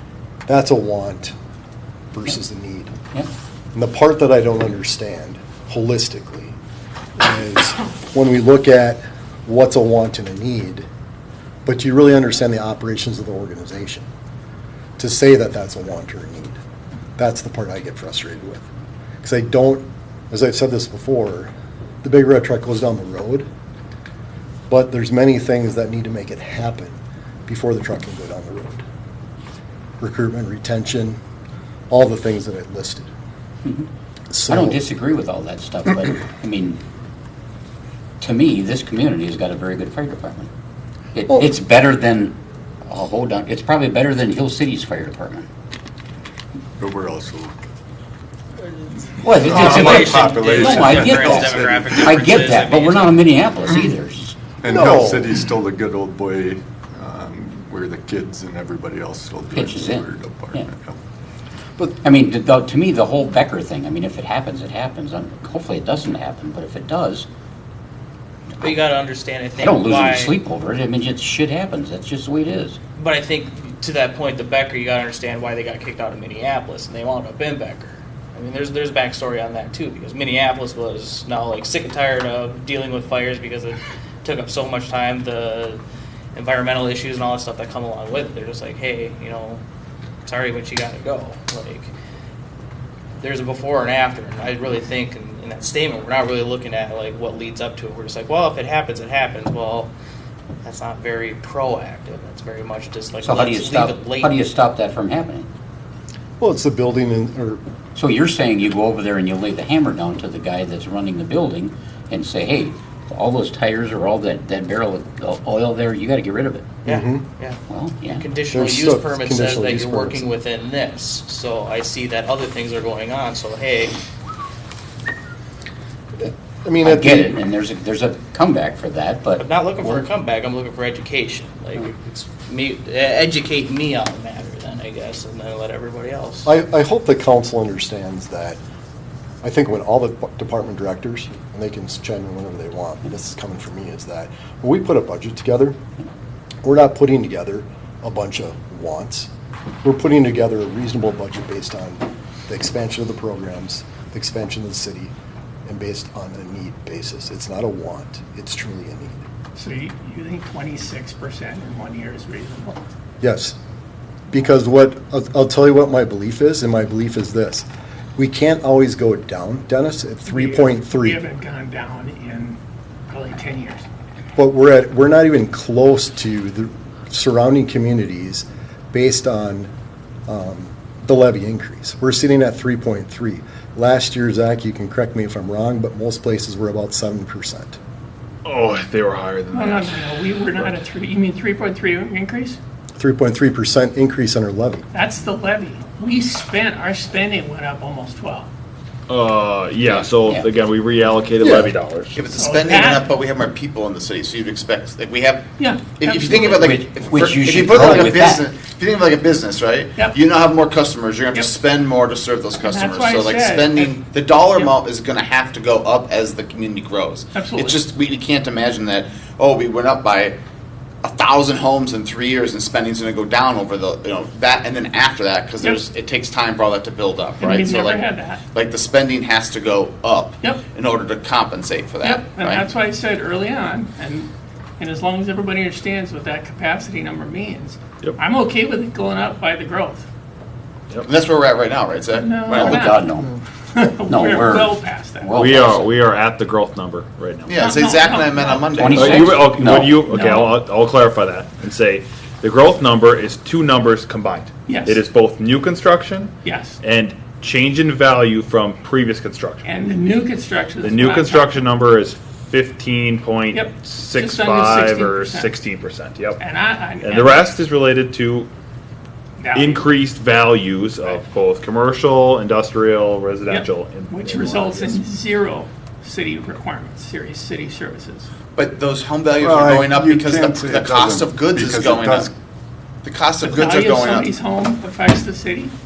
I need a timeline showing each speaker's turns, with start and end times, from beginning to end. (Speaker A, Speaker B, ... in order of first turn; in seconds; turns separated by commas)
Speaker A: 0.5-1.3, Speaker A: 2.1-2.9, Speaker A: 3.7-6.6, Speaker A: 7.2-10.9, Speaker A: 11.7-14.1, Speaker A: 15.0-16.6, Speaker A: 17.2-18.6, Speaker A: 19.2-21.5, Speaker A: 22.0-23.5, Speaker A: 24.7-28.8, Speaker A: 30.0-31.2, Speaker A: 31.9-33.1, Speaker A: 34.3-34.8, Speaker B: 34.5-36.8, Speaker B: 38.2-40.5, Speaker B: 41.1-45.5, Speaker C: 46.8-47.5, Speaker B: 49.2-54.4, Speaker C: 49.3-52.3, Speaker D: 49.5-53.2, Speaker C: 54.6-61.0, Speaker A: 54.7-55.2, Speaker B: 59.5-60.7, Speaker B: 62.0-67.3, Speaker D: 68.6-70.4, Speaker B: 69.6-72.8, Speaker D: 73.0-85.8, Speaker D: 86.3-89.6, Speaker D: 90.2-91.9, Speaker D: 93.2-99.9, Speaker D: 100.6-104.4, Speaker B: 103.2-105.5, Speaker A: 106.4-107.6, Speaker B: 107.9-116.7, Speaker D: 116.8-124.0, Speaker A: 116.8-117.2, Speaker B: 117.7-118.2, Speaker A: 118.5-120.3, Speaker A: 126.6-127.3, Speaker B: 126.8-130.0, Speaker D: 129.4-136.5, Speaker A: 136.4-138.6, Speaker A: 139.4-145.8, Speaker A: 146.6-149.3, Speaker A: 149.8-155.1, Speaker A: 155.7-159.2, Speaker E: 159.6-162.8, Speaker A: 163.2-163.6, Speaker A: 164.3-171.2, Speaker E: 170.2-172.6, Speaker E: 173.1-173.8, Speaker A: 174.3-179.7, Speaker A: 180.3-187.8, Speaker F: 188.4-190.7, Speaker E: 189.5-192.6, Speaker A: 192.9-194.8, Speaker E: 194.9-198.5, Speaker F: 199.1-202.2, Speaker B: 199.9-200.4, Speaker A: 201.4-201.7, Speaker G: 202.1-220.4, Speaker E: 202.3-203.1, Speaker E: 205.6-206.5, Speaker B: 206.5-208.4, Speaker E: 212.6-214.0, Speaker E: 217.3-217.8, Speaker G: 221.0-232.6, Speaker E: 227.4-228.4, Speaker E: 232.0-240.1, Speaker G: 241.0-242.9, Speaker E: 242.1-242.9, Speaker B: 242.6-243.3, Speaker E: 243.7-245.4, Speaker B: 244.1-245.8, Speaker F: 245.3-247.7, Speaker G: 247.5-249.4, Speaker E: 247.6-249.1, Speaker B: 248.7-250.0, Speaker F: 248.8-259.6, Speaker E: 250.1-250.5, Speaker E: 254.7-255.0, Speaker E: 256.4-256.8, Speaker E: 259.6-261.6, Speaker F: 260.8-266.4, Speaker E: 263.5-265.5, Speaker E: 266.4-267.4, Speaker F: 267.0-268.5, Speaker E: 269.4-269.9, Speaker F: 269.5-275.0, Speaker E: 273.5-278.3, Speaker G: 278.5-282.3, Speaker C: 279.4-282.3, Speaker G: 283.0-284.3, Speaker E: 283.4-285.7